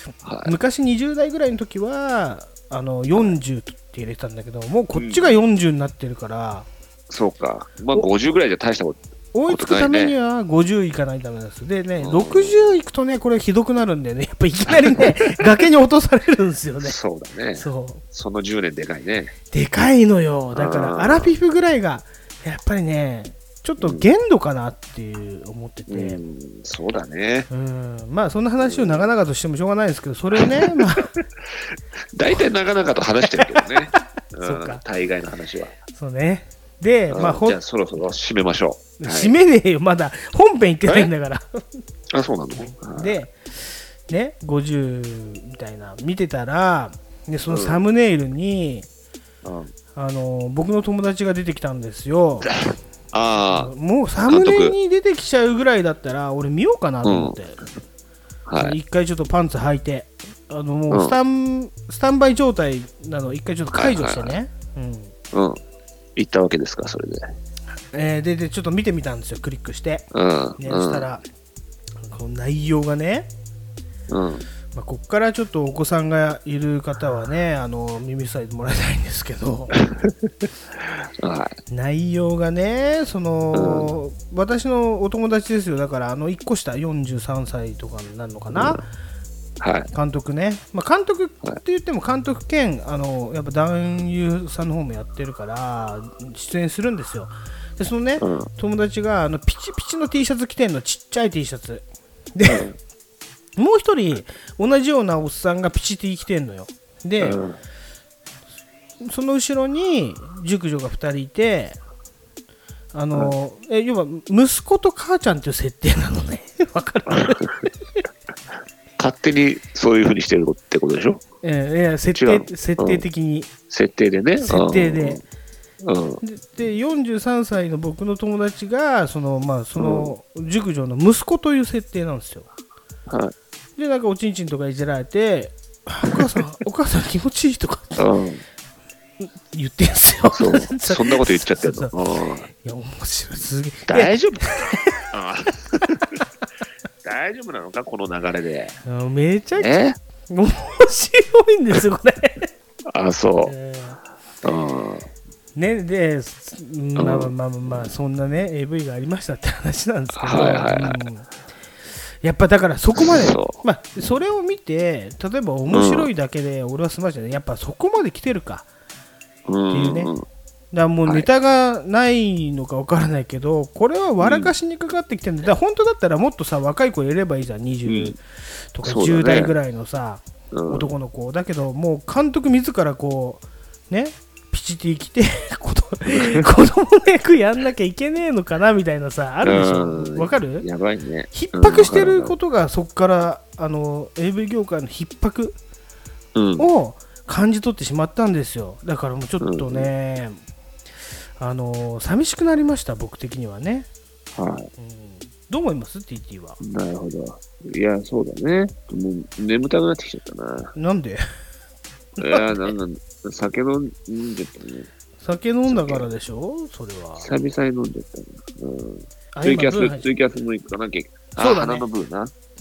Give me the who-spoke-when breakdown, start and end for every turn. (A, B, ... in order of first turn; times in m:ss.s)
0:00.2-0:00.6 A
0:00.4-0:06.7 B
0:05.0-0:05.3 A
0:07.1-0:10.2 A
0:09.3-0:17.0 B
0:12.0-0:12.8 A
0:14.7-0:15.3 A
0:16.8-0:19.3 A
0:17.6-0:18.0 B
0:19.5-0:26.2 B
0:20.6-0:21.3 A
0:23.8-0:24.1 A
0:25.9-0:27.5 A
0:27.5-0:31.1 B
0:28.6-0:29.1 A
0:30.4-0:35.8 A
0:33.3-0:34.8 B
0:35.9-0:37.6 B
0:37.1-0:39.3 A
0:39.0-0:41.6 B
0:42.1-0:43.2 A
0:42.6-0:48.9 B
0:47.5-0:47.8 A
0:49.4-0:49.7 A
0:50.0-0:52.5 B
0:52.5-0:53.7 A
0:53.5-0:57.6 B
0:54.3-0:54.8 A
0:57.0-0:57.4 A
0:58.5-0:58.8 A
0:58.6-1:05.1 B
1:00.9-1:01.2 A
1:03.7-1:04.4 A
1:05.3-1:05.6 A
1:06.2-1:07.2 A
1:07.9-1:10.1 B
1:10.1-1:11.1 A
1:10.6-1:11.2 B
1:12.0-1:13.3 B
1:14.1-1:14.4 A
1:14.7-1:19.8 B
1:19.8-1:20.3 A
1:20.8-1:21.6 A
1:21.7-1:28.9 B
1:23.5-1:23.9 A
1:28.5-1:28.8 A
1:29.6-1:29.9 A
1:29.9-1:42.7 B
1:38.2-1:38.5 A
1:42.5-1:42.8 A
1:43.6-1:47.4 B
1:47.2-1:47.6 A
1:49.0-1:51.8 B
1:52.9-1:57.7 B
1:57.1-1:57.5 A
1:59.0-2:01.2 A
2:01.4-2:03.5 B
2:02.1-2:03.0 A
2:03.7-2:05.2 A
2:04.4-2:05.2 B
2:05.8-2:06.2 A
2:06.2-2:12.5 B
2:09.8-2:10.1 A
2:13.1-2:13.3 A
2:13.8-2:18.1 B
2:18.0-2:18.4 A
2:19.2-2:21.9 B
2:20.3-2:22.5 A
2:22.6-2:25.0 B
2:23.9-2:26.0 A
2:27.0-2:28.8 A
2:28.9-2:29.8 B
2:29.6-2:30.0 A
2:30.3-2:32.5 B
2:32.9-2:33.6 A
2:33.5-2:34.0 B
2:34.4-2:35.1 A
2:35.6-2:41.3 B
2:37.0-2:37.9 A
2:40.2-2:41.0 A
2:42.2-2:48.7 B
2:43.0-2:44.2 A
2:45.7-2:46.1 A
2:49.5-2:50.3 A
2:49.7-2:50.1 B
2:50.7-3:10.7 B
2:54.2-2:54.5 A
2:57.9-2:58.2 A
2:58.8-2:59.5 A
3:00.5-3:00.9 A
3:06.1-3:06.4 A
3:09.4-3:12.4 A
3:11.3-3:15.6 B
3:16.4-3:16.7 A
3:16.6-3:20.4 B
3:19.4-3:19.9 A
3:21.4-3:23.9 B
3:24.4-3:24.7 A
3:24.8-3:26.6 B
3:26.6-3:30.7 A
3:30.8-3:31.2 B
3:32.2-3:32.7 B
3:32.2-3:34.9 A
3:35.2-3:37.3 B
3:35.7-3:36.1 A
3:37.2-3:42.3 A
3:39.3-3:40.1 B
3:41.4-3:41.9 B